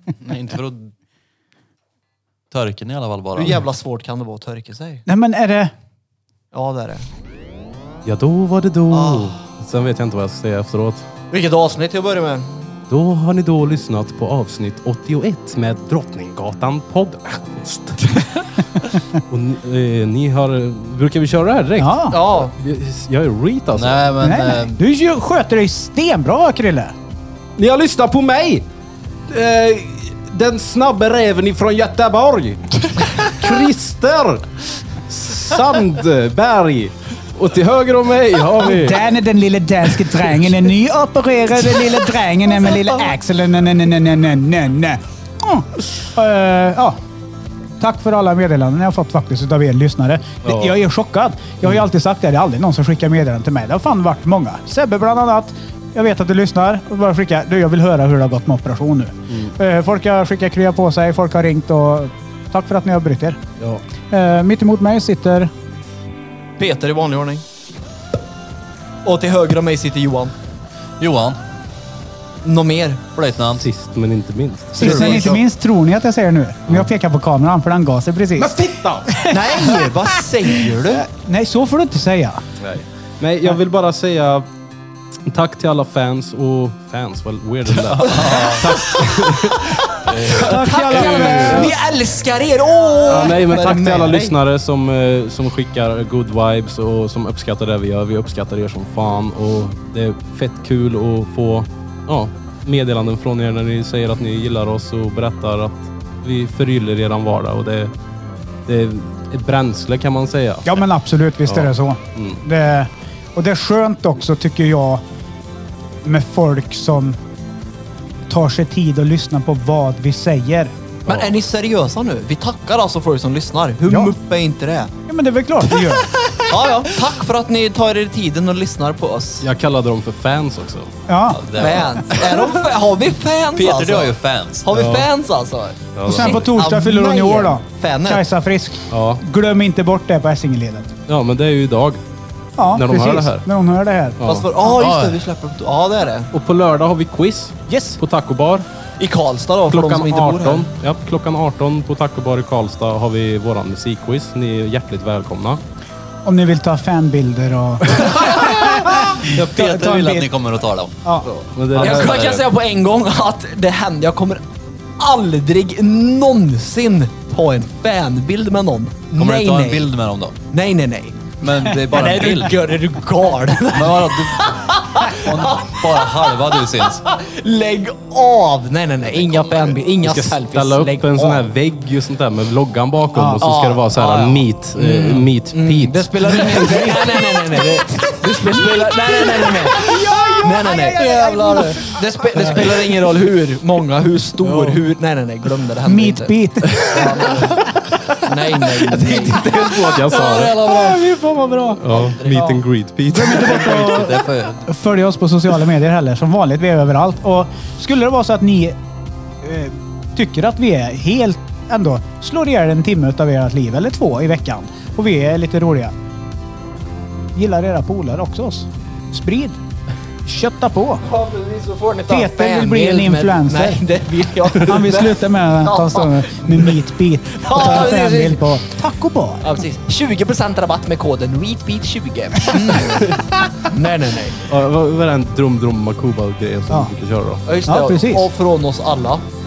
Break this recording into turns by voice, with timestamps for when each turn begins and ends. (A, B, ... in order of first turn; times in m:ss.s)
0:00.2-0:00.9 A
0:02.5-0:03.7 A
0:03.4-0:05.0 B
0:05.0-0:05.7 C
0:06.5-0:07.1 B
0:08.0-0:11.1 D
0:08.9-0:09.4 B
0:11.3-0:12.7 B
0:12.9-0:18.4 D
0:19.3-0:24.1 D
0:21.8-0:22.2 C
0:22.1-0:22.5 B
0:23.7-0:24.8 A
0:24.2-0:26.9 C
0:27.6-0:28.7 D
0:29.3-0:39.1 D
0:38.6-0:47.0 C
0:47.8-1:03.4 C
0:50.4-0:50.8 D
0:59.3-0:59.5 D
1:04.1-1:05.5 C
1:06.6-1:07.4 B
1:09.0-1:10.3 B
1:11.0-1:11.4 A
1:12.4-1:13.1 B
1:13.1-1:13.7 A
1:13.5-1:15.3 D
1:14.7-1:22.4 C
1:14.8-1:15.4 B
1:18.4-1:19.1 D
1:19.3-1:21.0 B
1:22.6-1:24.5 D
1:25.2-1:29.8 D
1:27.7-1:28.8 A
1:28.0-1:34.3 B
1:30.0-1:31.7 A
1:30.4-1:31.7 C
1:30.9-1:31.7 D
1:33.0-1:47.9 D
1:33.5-1:33.8 C
1:48.6-1:50.8 D
1:50.6-1:55.0 C
1:51.4-1:52.4 D
1:56.0-1:57.2 C
1:58.3-2:00.7 C
2:01.0-2:01.3 D
2:01.1-2:04.9 B
2:03.9-2:04.1 C
2:05.1-2:06.2 C
2:06.3-2:09.5 B
2:09.4-2:10.9 D
2:11.1-2:11.4 C
2:11.3-2:12.6 A
2:11.5-2:18.2 B
2:13.5-2:14.7 A
2:14.7-2:15.1 D
2:15.9-2:16.5 D
2:16.0-2:20.9 C
2:18.9-2:19.2 D
2:21.1-2:22.0 D
2:22.6-2:24.2 C
2:22.7-2:23.4 D
2:24.2-2:24.5 D
2:24.2-2:26.3 B
2:24.6-2:25.2 A
2:26.3-2:28.6 D
2:27.7-2:28.0 C
2:29.0-2:30.6 B
2:29.7-2:35.6 D
2:36.2-2:40.3 C
2:38.2-2:40.9 A
2:41.0-2:41.3 C
2:41.2-2:42.4 D
2:41.7-2:42.5 A
2:41.7-2:49.9 B
2:49.2-2:50.3 A
2:50.5-3:01.5 B
2:51.4-2:52.7 A
2:53.7-2:57.0 A
2:59.3-2:59.6 A
3:00.0-3:06.9 D
3:03.1-3:03.5 C
3:03.4-3:16.3 B
3:06.2-3:07.6 C
3:08.3-3:12.9 C
3:15.8-3:17.1 C
3:16.8-3:17.1 D
3:16.9-3:17.7 B
3:17.7-3:20.6 D
3:18.2-3:19.5 B
3:19.7-3:21.1 A
3:20.6-3:28.8 C
3:21.7-3:24.1 D
3:21.8-3:22.5 A
3:23.2-3:24.7 A
3:29.4-3:35.9 C
3:37.3-3:39.6 C
3:40.2-3:41.0 C
3:41.0-3:46.8 B
3:42.1-3:43.8 C
3:44.5-3:49.5 C
3:47.3-3:48.6 B
3:49.4-3:54.4 B
3:52.9-3:53.6 D
3:54.4-3:57.4 D
3:57.4-3:59.2 B
3:57.6-3:58.3 C